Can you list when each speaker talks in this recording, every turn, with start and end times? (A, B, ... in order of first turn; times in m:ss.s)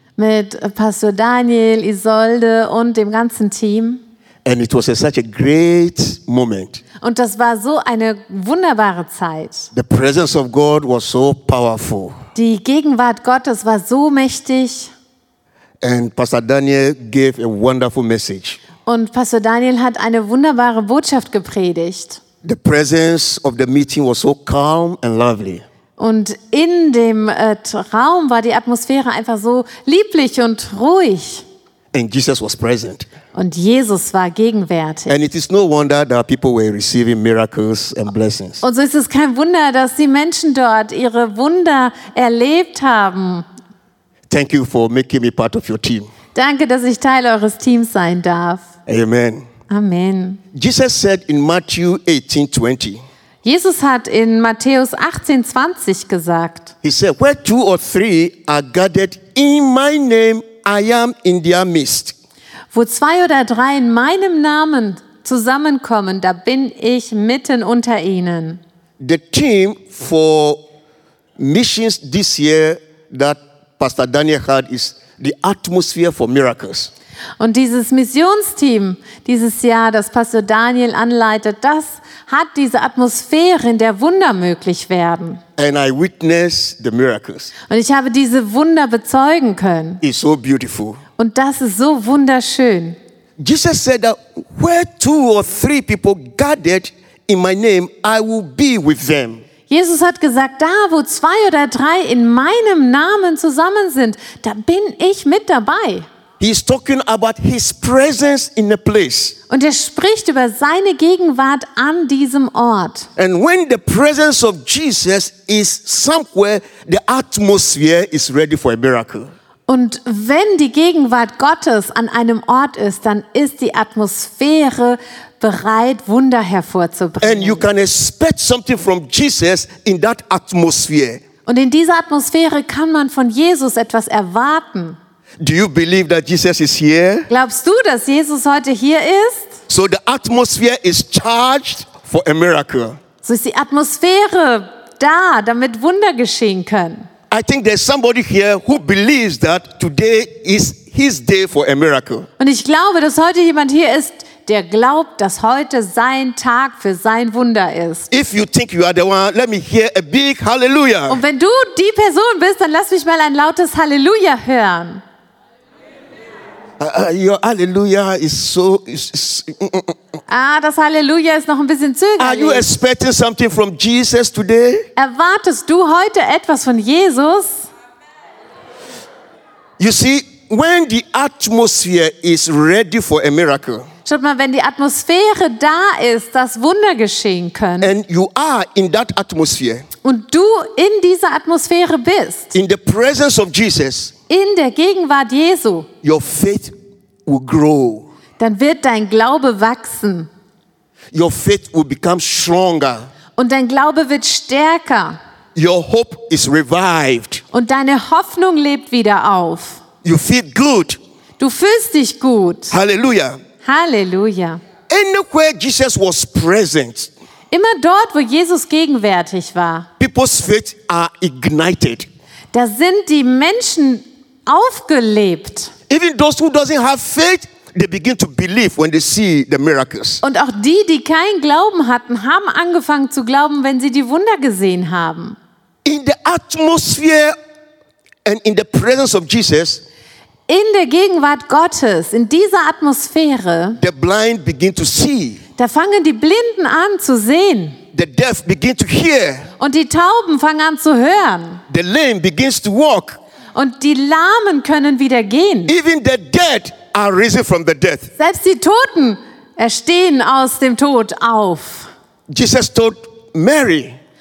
0:00.2-0:04.0 A
0:04.4-0:06.8 B
0:07.0-0:09.7 A
0:09.7-0:12.2 B
0:12.3-0:14.9 A
0:15.8-0:18.6 B
0:18.8-0:22.2 A
0:22.4-0:25.6 B
0:26.0-0:31.4 A
0:31.9-0:33.1 B
0:33.3-0:35.2 A
0:35.1-0:38.6 B
0:38.6-0:43.4 A
0:44.3-0:46.1 B
0:46.3-0:48.7 A
0:48.9-0:49.4 B
0:49.7-0:50.4 A
0:50.5-0:53.0 B
0:53.4-0:56.7 A
0:56.8-1:02.1 B
1:02.7-1:08.6 A
1:09.0-1:10.6 B
1:11.4-1:16.9 B
1:17.4-1:25.4 A
1:25.6-1:27.5 B
1:27.7-1:30.0 A
1:30.0-1:31.0 B
1:31.2-1:33.0 A
1:33.4-1:39.4 B
1:39.7-1:46.0 A
1:46.4-1:49.4 B
1:49.5-1:53.1 A
1:53.2-1:59.3 B
1:59.7-2:07.6 A
2:07.2-2:11.2 B
2:11.4-2:15.0 A
2:15.4-2:17.3 B
2:17.3-2:19.5 A
2:19.7-2:23.0 B
2:23.2-2:27.1 A
2:27.3-2:32.3 B
2:32.4-2:38.1 A
2:38.1-2:41.2 B
2:41.1-2:45.0 A
2:46.8-2:50.0 B
2:50.3-2:52.7 A
2:52.2-2:54.8 B
2:55.0-2:57.7 A
2:59.8-3:03.9 B
3:04.0-3:07.9 A
3:07.8-3:09.8 B
3:10.0-3:12.5 A
3:12.5-3:14.1 B
3:14.3-3:15.9 A
3:16.0-3:16.7 B
3:17.2-3:18.0 B
3:18.4-3:20.3 A
3:21.1-3:23.1 B
3:23.4-3:25.2 A
3:25.6-3:27.4 B
3:27.5-3:29.8 A
3:30.0-3:31.0 B
3:31.4-3:32.7 A
3:32.7-3:33.4 B
3:33.6-3:34.6 A
3:34.9-3:37.1 B
3:37.5-3:39.9 A
3:40.0-3:42.1 B
3:42.5-3:45.7 A
3:45.9-3:50.2 B
3:50.2-3:55.4 A
3:55.8-3:57.4 B
3:58.2-3:59.8 B
4:00.5-4:03.8 A
4:03.8-4:05.4 B
4:05.6-4:07.8 A
4:07.9-4:09.5 B
4:09.6-4:11.6 A
4:11.7-4:13.2 B
4:13.5-4:15.7 A
4:15.7-4:18.1 B
4:18.2-4:21.9 A
4:22.3-4:24.0 B